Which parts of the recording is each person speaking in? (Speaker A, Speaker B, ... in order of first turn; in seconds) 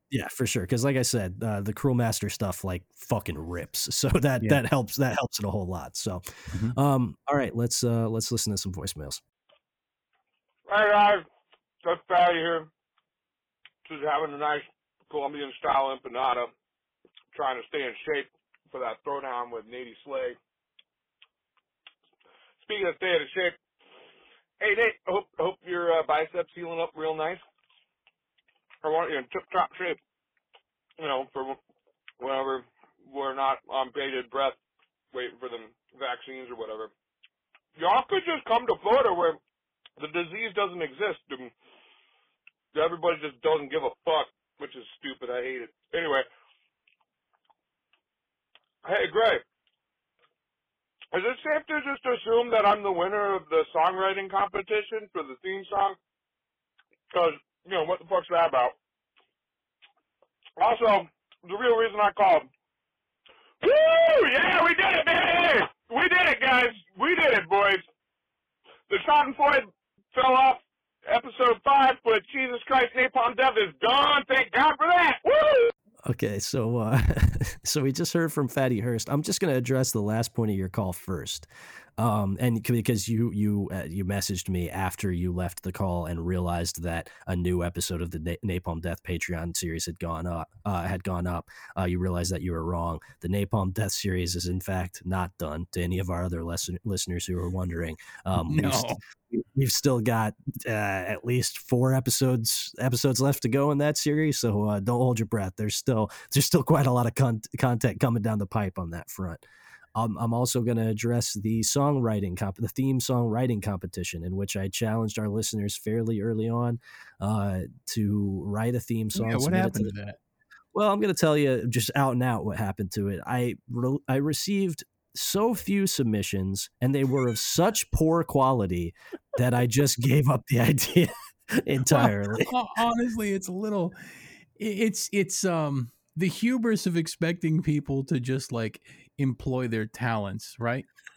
Speaker A: 0.1-9.2, 76.1-109.4, 110.0-119.9, 120.7-132.5
Speaker B: 6.5-6.8, 98.3-99.0, 119.2-120.2, 131.9-140.9
Speaker C: 10.7-11.3, 11.8-12.7, 13.8-16.5, 17.3-20.4, 22.6-23.6, 24.6-27.4, 28.8-30.0, 31.0-31.6, 32.2-34.6, 35.1-36.9, 37.8-39.4, 40.0-41.5, 42.7-46.3, 48.8-49.4, 51.1-56.0, 57.1-58.8, 60.6-62.5, 63.6-67.8, 68.9-75.7